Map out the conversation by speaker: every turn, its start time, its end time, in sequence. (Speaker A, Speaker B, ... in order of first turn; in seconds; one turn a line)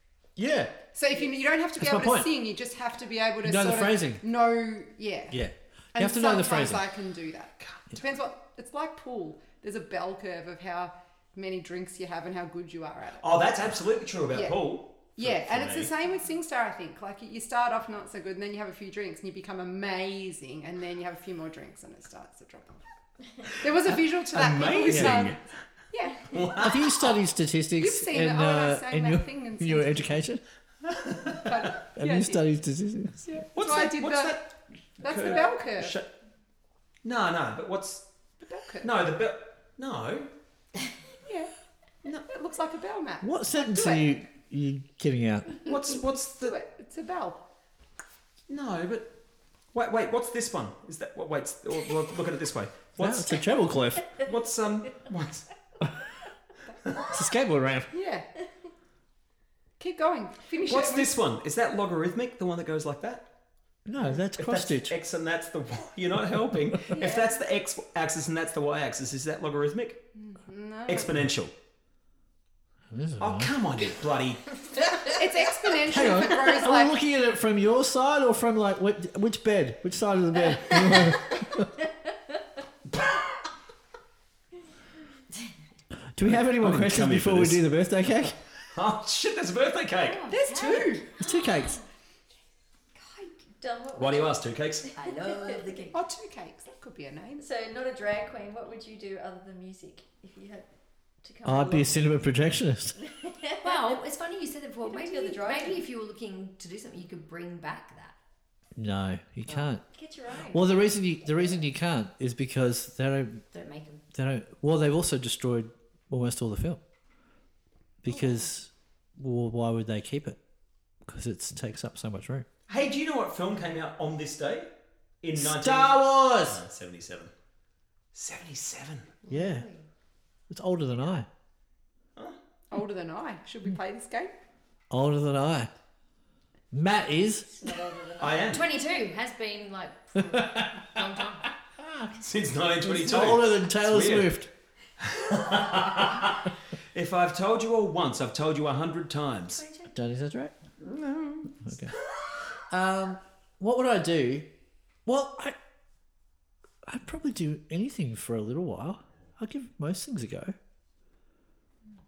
Speaker A: 0.4-0.7
Speaker B: 0.4-0.7
Speaker C: 0.9-5.4
Speaker B: 1.8-2.3
Speaker B: 3.4-4.2
Speaker B: 5.3-6.8
Speaker C: 6.0-13.4
Speaker A: 13.2-15.9
Speaker C: 14.3-22.8
Speaker C: 23.4-25.4
Speaker A: 24.3-25.4
Speaker B: 24.9-25.3
Speaker C: 25.9-26.6
Speaker A: 26.3-27.1
Speaker B: 26.6-30.4
Speaker C: 27.8-30.1
Speaker A: 30.9-31.2
Speaker C: 31.3-32.5
Speaker B: 32.0-33.4
Speaker C: 33.2-34.4
Speaker A: 33.5-36.1
Speaker C: 35.0-36.0
Speaker A: 37.0-38.1
Speaker C: 38.4-38.9
Speaker A: 38.8-40.3
Speaker C: 41.3-41.5
Speaker C: 42.2-44.1
Speaker B: 43.2-45.6
Speaker A: 45.6-46.6
Speaker C: 46.4-47.4
Speaker A: 48.5-49.1
Speaker A: 49.7-53.4
Speaker B: 53.0-54.1
Speaker A: 54.2-55.5
Speaker B: 57.1-57.9
Speaker C: 57.9-58.3
Speaker C: 59.8-61.2
Speaker A: 60.6-63.3
Speaker B: 63.9-65.0
Speaker A: 64.1-70.0
Speaker C: 70.2-71.1
Speaker A: 70.9-71.5
Speaker B: 72.9-73.6
Speaker A: 73.2-74.4
Speaker C: 75.1-77.0
Speaker B: 75.8-81.7
Speaker A: 82.9-83.2
Speaker B: 86.2-88.4
Speaker A: 86.2-87.7
Speaker A: 88.7-90.2
Speaker D: 90.0-91.0
Speaker C: 90.3-91.1
Speaker E: 90.3-90.8
Speaker B: 91.2-91.8
Speaker E: 93.0-95.9
Speaker A: 94.0-94.9
Speaker D: 95.0-96.0
Speaker C: 95.9-97.5
Speaker E: 97.4-100.7
Speaker E: 101.2-102.1
Speaker B: 101.5-103.0
Speaker E: 103.0-104.0
Speaker D: 103.6-108.2
Speaker E: 104.8-105.8
Speaker B: 108.8-109.8
Speaker E: 109.8-111.6
Speaker B: 110.5-113.4
Speaker D: 113.5-114.0
Speaker B: 114.1-116.8
Speaker B: 118.0-120.4
Speaker B: 121.1-122.5
Speaker A: 122.7-124.7
Speaker A: 125.2-127.3
Speaker B: 125.4-126.6
Speaker A: 128.1-129.1
Speaker D: 129.2-129.8
Speaker B: 129.3-129.7
Speaker B: 130.5-131.3
Speaker C: 132.7-134.3
Speaker B: 134.9-135.7
Speaker B: 136.7-137.5
Speaker E: 137.6-138.8
Speaker A: 138.2-138.6
Speaker D: 138.4-141.5
Speaker B: 140.2-141.0
Speaker B: 141.8-142.1
Speaker A: 142.2-144.3
Speaker B: 142.8-144.5
Speaker A: 145.0-146.4
Speaker A: 146.9-149.6
Speaker E: 149.5-149.9
Speaker B: 149.9-150.5
Speaker A: 150.8-151.6
Speaker B: 151.6-151.9
Speaker B: 152.7-154.5
Speaker B: 155.1-155.6
Speaker B: 156.9-160.6